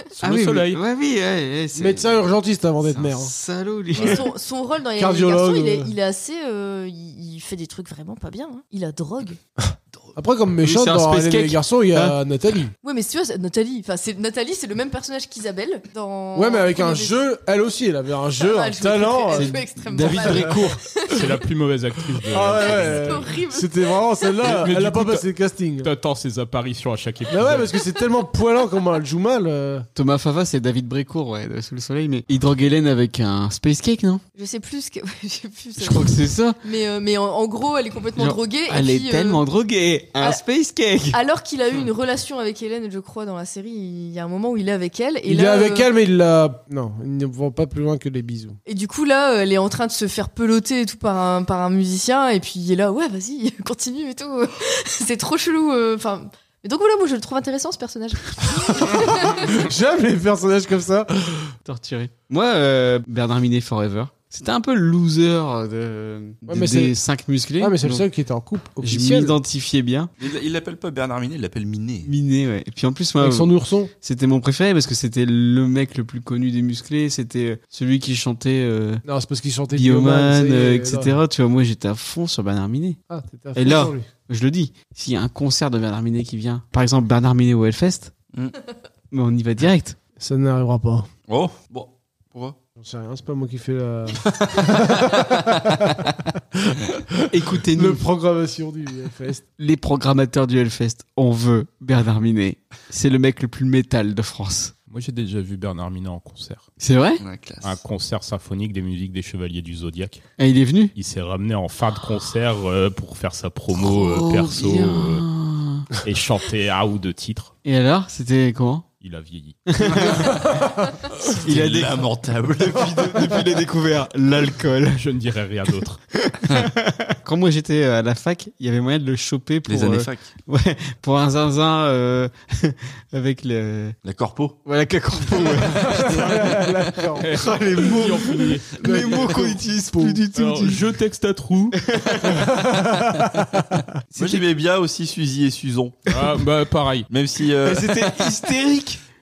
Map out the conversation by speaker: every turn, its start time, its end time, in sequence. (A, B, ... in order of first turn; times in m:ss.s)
0:00.2-0:00.8 A
0:00.2-0:02.2 B
0:01.7-0:03.3 C
0:02.8-0:04.2 B
0:04.0-0:09.4 D
0:05.0-0:05.9 C
0:09.6-0:12.7 C
0:10.6-0:12.2 B
0:12.8-0:17.2 D
0:16.3-0:20.7 C
0:18.4-0:21.4 D
0:19.3-0:20.8 B
0:21.1-0:23.3 A
0:22.2-0:25.9 C
0:22.5-0:24.4 D
0:24.4-0:25.3 A
0:25.8-0:27.8 A
0:27.3-0:29.9 C
0:29.9-0:34.2 B
0:34.4-0:39.4 D
0:35.8-0:36.6 B
0:38.2-0:41.2 B
0:41.1-0:45.9 D
0:45.2-0:48.6 C
0:48.6-0:59.6 D
0:58.7-1:01.5 C
1:01.6-1:08.0 B
1:06.4-1:07.0 C
1:07.6-1:09.4 C
1:08.8-1:10.1 B
1:10.2-1:12.1 E
1:12.0-1:19.0 B
1:13.2-1:13.9 C
1:19.0-1:21.2 C
1:19.7-1:23.0 B
1:23.1-1:24.1 C
1:23.5-1:28.1 B
1:29.1-1:30.0 B
1:30.2-1:31.1 C
1:31.3-1:32.6 E
1:32.8-1:36.0 C
1:34.2-1:35.9 E
1:37.3-1:38.0 B
1:37.6-1:39.4 C
1:39.6-1:44.7 B
1:44.9-1:46.7 A
1:46.8-1:47.2 B
1:47.2-1:47.8 E
1:47.6-1:50.2 A
1:50.4-1:50.9 B
1:51.0-1:55.2 A
1:53.7-1:55.8 B
1:56.0-1:57.5 A
1:57.6-1:58.9 B
1:59.0-2:00.4 A
1:59.7-2:00.4 B
2:00.5-2:00.9 C
2:01.2-2:03.1 E
2:01.4-2:05.0 B
2:04.9-2:06.0 A
2:06.1-2:14.0 B
2:09.6-2:10.3 E
2:14.0-2:14.6 E
2:14.6-2:16.2 B
2:15.7-2:17.3 C
2:17.2-2:19.4 A
2:17.3-2:20.8 B
2:18.8-2:20.2 C
2:20.3-2:22.0 A
2:21.9-2:22.4 B
2:22.3-2:23.7 C
2:24.1-2:24.4 B
2:24.2-2:26.1 E
2:26.1-2:27.1 A
2:27.1-2:28.3 E
2:27.6-2:29.0 B